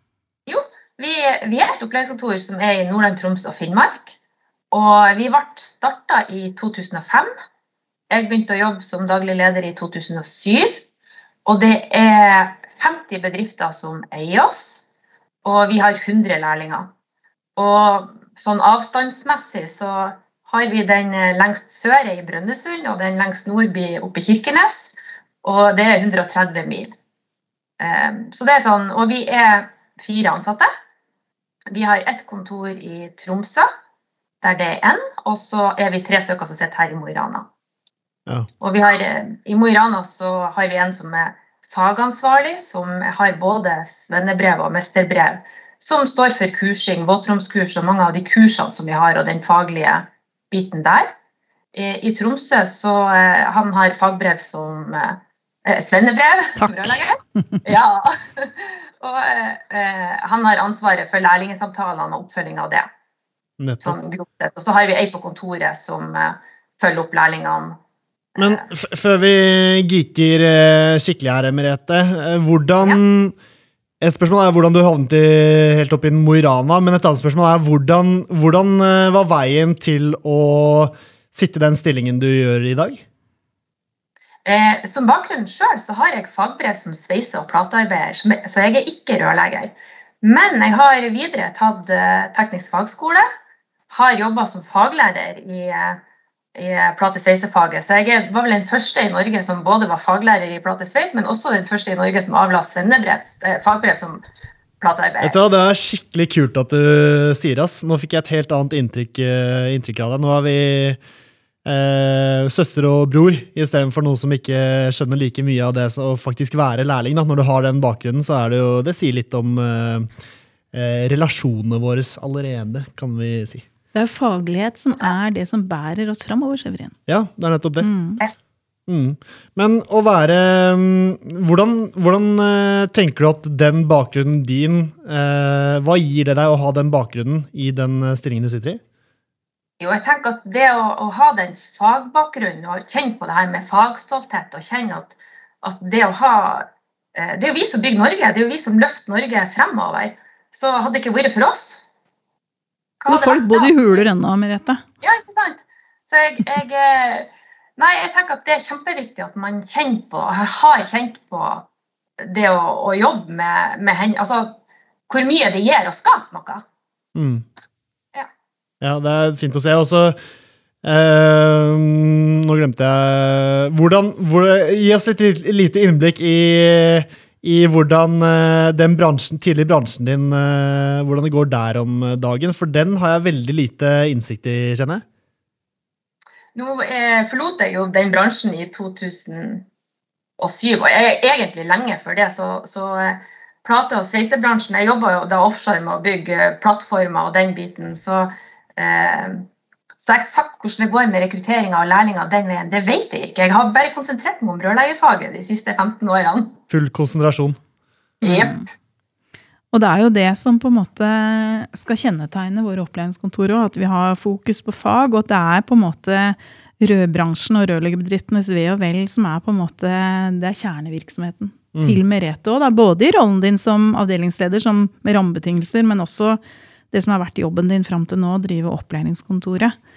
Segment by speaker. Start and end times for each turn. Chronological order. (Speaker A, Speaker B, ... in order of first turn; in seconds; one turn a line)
Speaker A: 0.5-4.2
Speaker A: 4.7-7.3
Speaker A: 8.1-10.8
Speaker A: 11.4-14.8
Speaker A: 15.4-16.9
Speaker A: 17.6-26.9
Speaker A: 27.8-30.7
Speaker A: 31.7-33.7
Speaker A: 34.4-37.5
Speaker A: 38.6-51.1
Speaker A: 51.7-62.9
Speaker B: 56.6-57.6
Speaker C: 63.6-64.0
Speaker A: 63.8-67.8
Speaker A: 68.3-68.7
Speaker C: 68.4-73.4
Speaker C: 74.0-83.0
Speaker A: 84.5-93.3
Speaker A: 93.9-96.0
Speaker A: 96.5-104.2
Speaker A: 104.8-105.4
Speaker C: 105.2-111.0
Speaker C: 111.7-120.1
Speaker C: 120.7-123.7
Speaker B: 123.9-127.0
Speaker C: 127.1-127.9
Speaker B: 127.8-128.2
Speaker C: 128.9-138.8
Speaker A: 139.8-151.8
Speaker A: 153.0-154.1
Speaker B: 153.1-154.8
Speaker A: 155.0-161.7
Speaker A: 162.2-164.6
Speaker A: 165.1-166.6
Speaker C: 167.2-167.4
Speaker C: 168.8-170.2
Speaker C: 170.8-185.0
Speaker A: 186.6-189.7
Speaker A: 190.4-199.5
Speaker A: 200.0-206.6
Speaker C: 206.7-207.6
Speaker A: 208.2-208.5
Speaker B: 208.2-208.7
Speaker B: 209.7-226.4
Speaker C: 221.7-222.0
Speaker B: 226.9-229.8